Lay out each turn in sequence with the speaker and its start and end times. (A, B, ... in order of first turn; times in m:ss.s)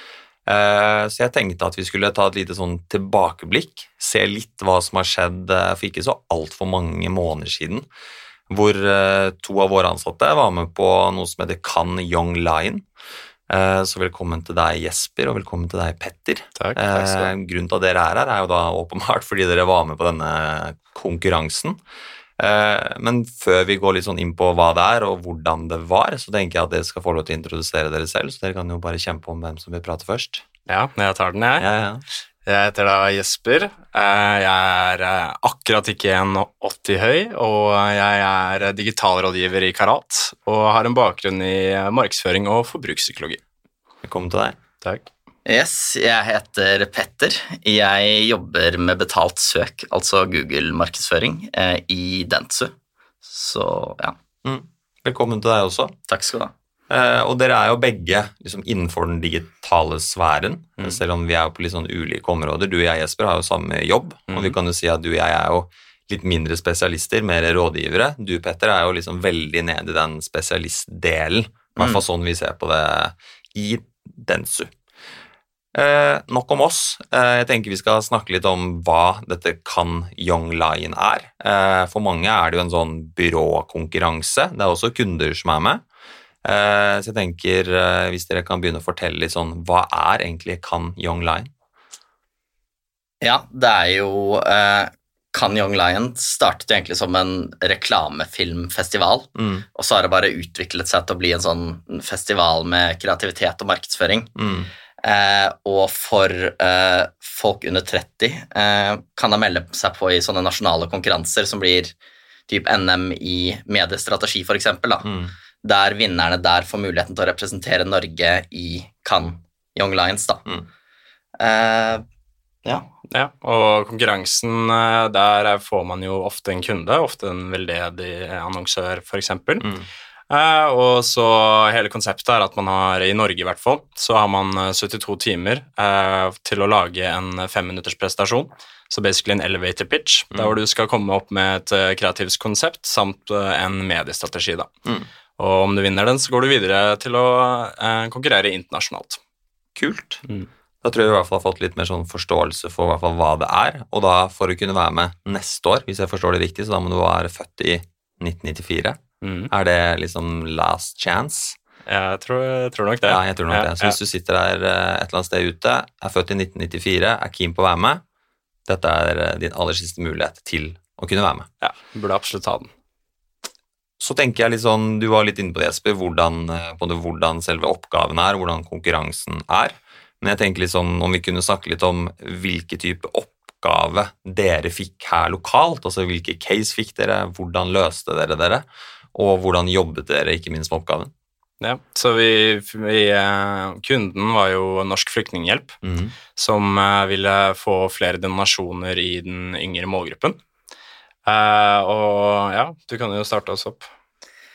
0:00.4-0:07.9 A
0:08.5-0:12.8 A
0:13.5-0:21.8 A
0:16.6-0:17.3 B
0:22.4-0:30.4 A
0:30.7-0:31.6 B
0:31.6-0:32.0 A
0:32.4-0:43.4 B
0:44.0-0:44.6 A
0:44.8-0:45.1 B
0:45.4-0:54.1 C
0:54.4-0:55.9 A
0:56.1-0:56.5 C
0:56.9-1:14.7 A
1:04.3-1:04.6 B
1:11.8-1:12.0 C
1:15.7-1:25.8 A
1:26.4-1:31.5 A
1:33.2-1:44.3 C
1:39.3-1:39.6 A
1:44.4-1:44.7 A
1:45.0-1:51.9 C
1:52.5-1:55.1 C
1:55.0-1:55.3 A
1:55.6-2:00.4 C
2:01.4-2:02.0 C
2:02.6-2:02.9 C
2:03.1-2:09.7 B
2:09.6-2:09.9 A
2:10.3-2:24.7 B
2:20.3-2:20.6 A
2:25.4-2:29.2 B
2:29.8-2:30.2 A
2:30.8-2:39.0 A
2:39.2-2:39.5 B
2:39.5-2:41.6 A
2:41.8-2:44.0 B
2:43.0-2:48.0 A
2:48.7-2:51.5 A
2:51.6-2:52.7 B
2:54.0-3:11.1 A
3:11.6-3:15.8 B
3:15.8-3:16.2 A
3:16.3-3:20.4 B
3:21.2-3:23.9 B